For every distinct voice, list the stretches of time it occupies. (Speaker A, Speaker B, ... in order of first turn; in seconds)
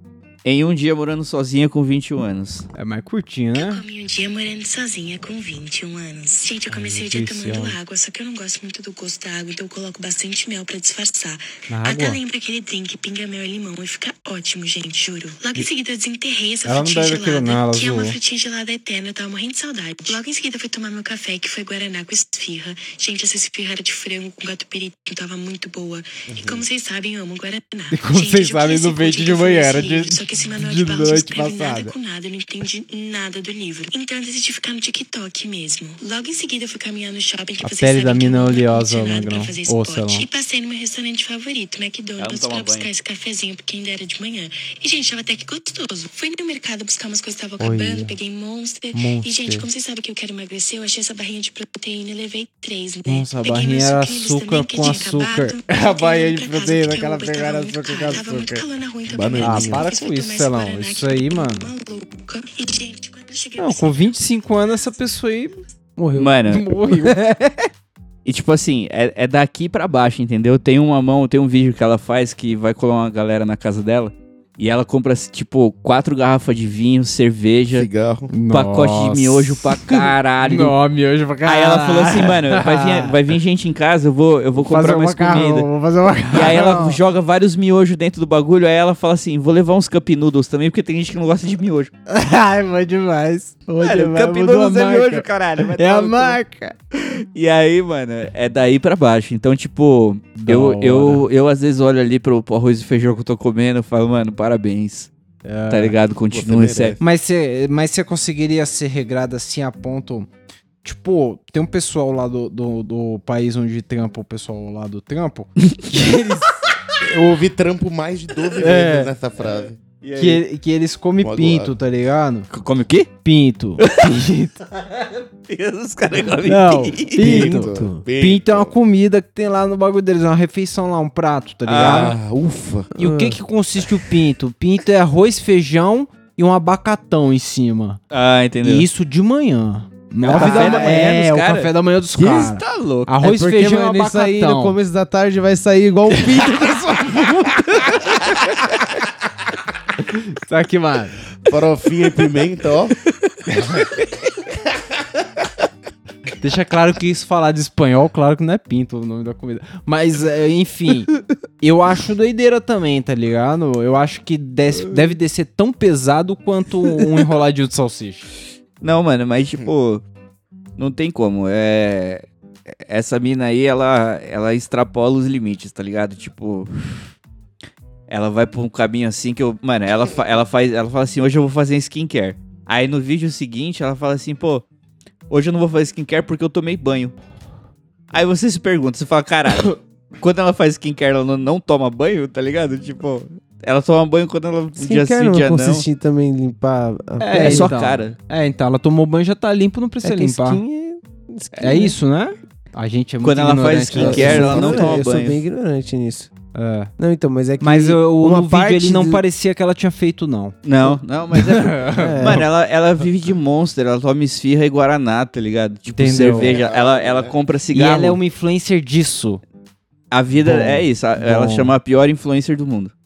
Speaker A: 0.5-2.7, 42.2-42.9, 66.2-66.6, 68.2-77.9, 78.5-80.8, 81.5-85.7, 86.3-91.9, 93.8-96.4, 96.9-105.1, 105.7-107.0, 120.0-120.4, 122.5-123.1, 123.8-124.2, 125.5-127.4, 131.7-132.2, 138.1-138.9, 140.2-143.2, 168.8-170.0, 170.8-172.3, 172.9-177.1, 178.1-184.7, 185.3-187.2, 188.1-195.9, 197.3-198.2, 203.2-205.4, 210.6-218.2, 220.1-222.9
Speaker B: 2.7-3.8, 6.7-7.8, 11.7-12.2, 16.6-18.2, 27.9-31.9, 37.6-40.3, 47.6-48.1, 48.9-49.7, 53.1-58.6, 59.4-61.7, 63.6-65.6, 66.5-67.6, 78.3-83.2, 84.6-87.0, 92.1-96.7, 100.4-101.2, 105.4-106.0, 107.0-110.3, 110.8-116.5, 118.6-119.1, 120.2-122.5, 123.2-124.6, 126.5-132.2, 133.0-138.0, 138.6-144.8, 150.0-151.2, 153.5-154.0, 156.4-168.3, 197.2-200.6, 201.6-205.0, 206.5-206.9, 207.6-210.6, 211.3-212.4, 215.9-216.6, 217.7-219.4, 220.4-221.7
Speaker C: 3.5-64.2
Speaker D: 26.3-26.6, 59.1-59.9, 77.7-78.3, 106.3-107.0, 117.0-119.8, 121.2-121.8, 127.2-128.8, 131.8-132.9, 151.4-153.0, 216.4-217.3
Speaker E: 66.0-67.1, 127.2-128.0, 133.0-133.4, 140.3-141.0, 143.2-148.2, 194.8-198.0, 200.0-202.0, 203.9-206.3, 207.0-209.2, 211.9-212.4